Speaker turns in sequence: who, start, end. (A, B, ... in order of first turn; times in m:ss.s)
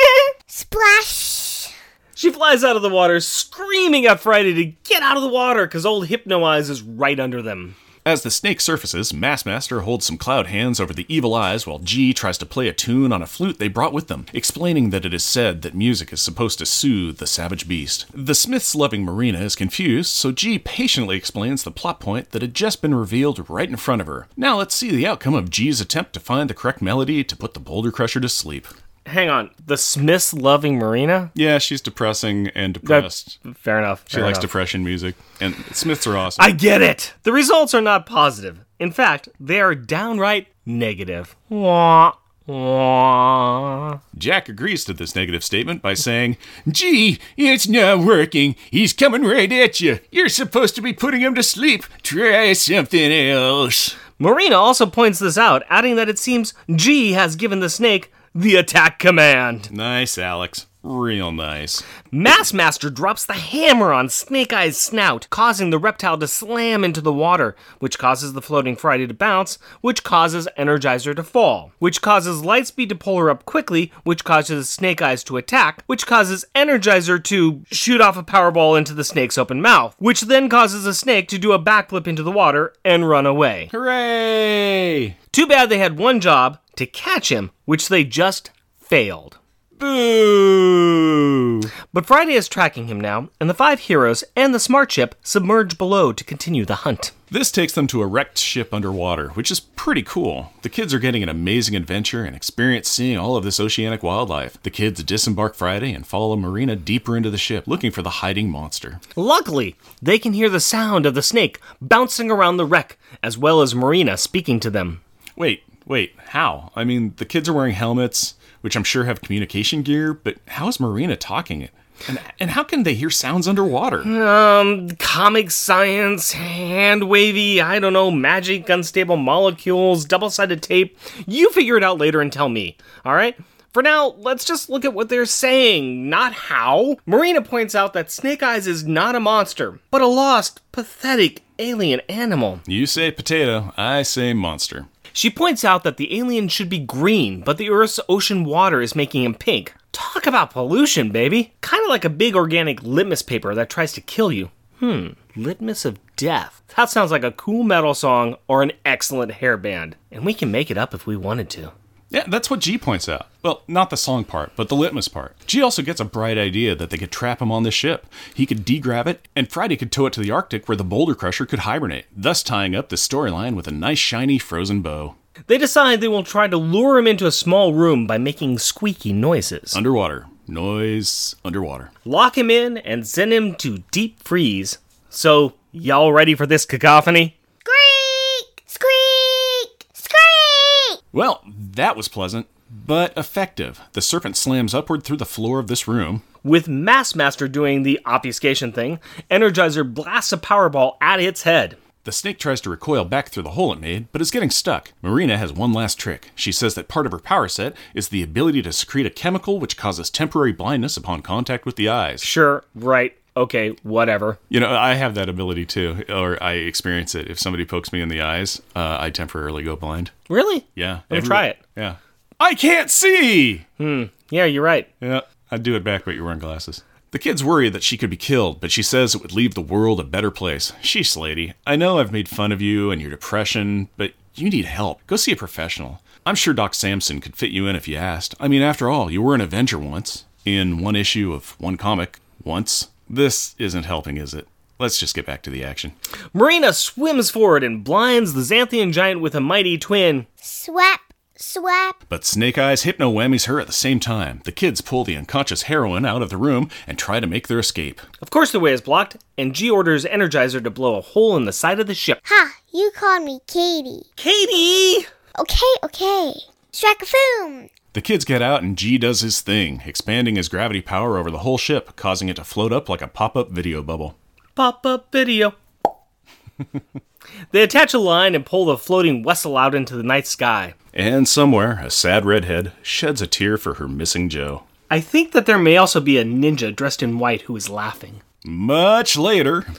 0:00.5-0:01.7 A
0:02.2-0:07.8 B
0:08.0-0:28.7 C
0:29.0-0:31.3 B
0:31.3-0:33.4 C
0:32.8-0:34.5 B
0:34.1-0:36.6 C
0:36.4-0:44.0 B
0:44.1-0:54.0 C
0:54.2-0:59.7 B
0:59.7-1:01.8 C
1:02.1-1:23.7 B
1:23.7-1:25.2 C
1:25.3-1:29.4 B
1:29.8-1:31.7 C
1:31.9-1:37.1 B
1:37.3-1:49.0 C
1:49.2-1:55.0 B
1:55.4-2:04.1 C
2:04.0-2:22.6 B
2:22.6-2:24.9 C
2:25.1-2:41.7 B
2:42.1-2:55.1 C
2:55.5-2:59.8 B
2:59.7-3:01.9 C
3:02.0-3:07.3 B
3:07.6-3:11.0 A
3:11.1-3:16.2 C
3:16.4-3:21.8 B
3:22.0-3:32.3 C
3:32.2-3:34.4 B
3:34.5-3:40.1 C
3:40.3-3:41.6 B
3:40.8-3:43.6 C
3:43.8-3:44.9 B
3:45.0-4:05.9 C
4:06.3-4:10.3 B
4:10.4-4:12.0 A
4:12.1-4:18.0 C
4:18.2-4:22.2 B
4:22.2-4:24.0 A
4:24.2-4:25.1 B
4:25.4-4:27.7 A
4:27.9-4:34.1 C
4:34.6-4:35.6 B
4:37.5-4:40.7 B
4:40.9-4:44.6 C
4:44.9-4:48.2 B
4:48.4-4:49.7 C